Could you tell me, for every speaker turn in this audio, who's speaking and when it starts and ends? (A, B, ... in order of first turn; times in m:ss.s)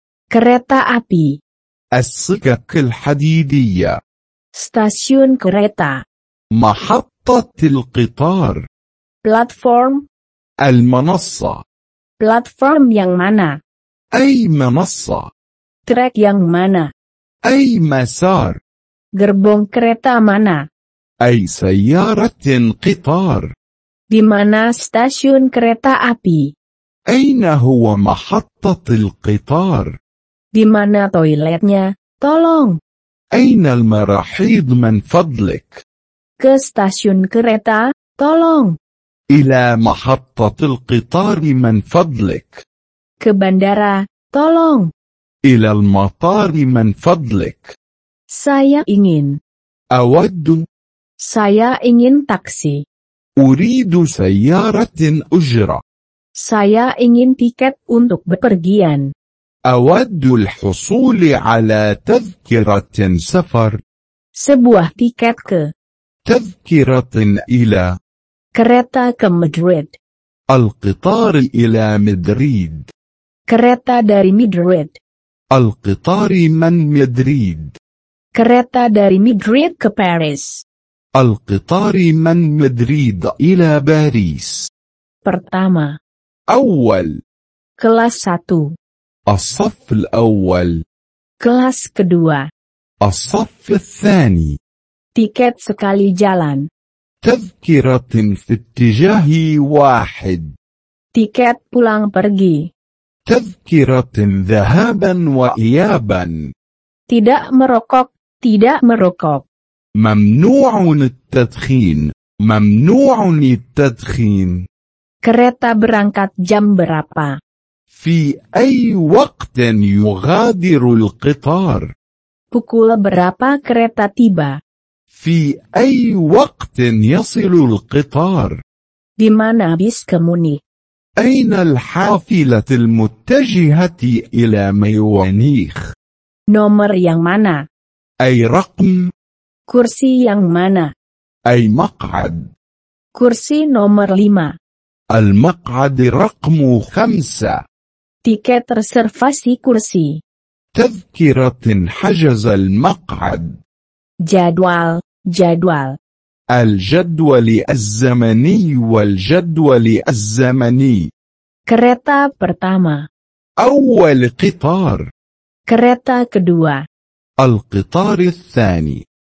0:00.3-0:01.4 A
0:01.9-0:04.0 B
0:04.6-0:06.0 A
0:06.5-0:08.6 B
0:09.2-0:10.0 A
0:10.6-0:11.6 B
0:12.2-0:13.6 A
0:14.1-0:15.3 B
0:15.9-0:16.9 A
0:17.4-0:18.6 B
0:19.2-0:20.6 A
0:21.2-0:23.5 B
0:24.1-0:26.5 A
0:27.1-0:30.0 B
0:30.5-0:32.8 A
0:33.3-0:35.8 B
0:36.4-0:38.8 A
0:39.3-0:42.6 B
0:43.2-0:44.9 A
0:45.4-0:47.7 B
0:48.3-0:49.4 A
0:49.9-0:50.6 B
0:51.2-0:52.8 A
0:53.4-0:55.8 B
0:56.4-0:59.1 A
0:59.7-1:03.8 B
1:04.4-1:05.7 A
1:06.2-1:07.9 B
1:08.6-1:09.9 A
1:10.5-1:12.9 B
1:13.5-1:15.0 A
1:15.5-1:17.8 B
1:18.3-1:20.6 A
1:21.2-1:24.7 B
1:25.2-1:26.0 A
1:26.5-1:27.2 B
1:27.8-1:28.7 A
1:29.3-1:30.8 B
1:31.4-1:32.4 A
1:33.0-1:34.6 B
1:35.2-1:36.6 A
1:37.2-1:40.5 B
1:41.1-1:42.7 A
1:43.2-1:46.5 B
1:47.1-1:49.4 A
1:50.0-1:54.6 B
1:55.2-1:57.4 A
1:57.9-2:01.9 B
2:02.5-2:04.6 A
2:05.1-2:08.6 B
2:09.2-2:10.6 A
2:11.2-2:15.9 B
2:16.5-2:17.6 A
2:18.2-2:19.1 B
2:19.7-2:20.9 A
2:21.5-2:22.5 B
2:23.1-2:24.5 A
2:25.1-2:27.6 B
2:28.2-2:30.2 A
2:30.7-2:33.6 B
2:34.3-2:36.0 A
2:36.5-2:41.1 B
2:41.7-2:43.0 A
2:43.6-2:45.1 B
2:45.7-2:46.8 A
2:47.4-2:49.0 B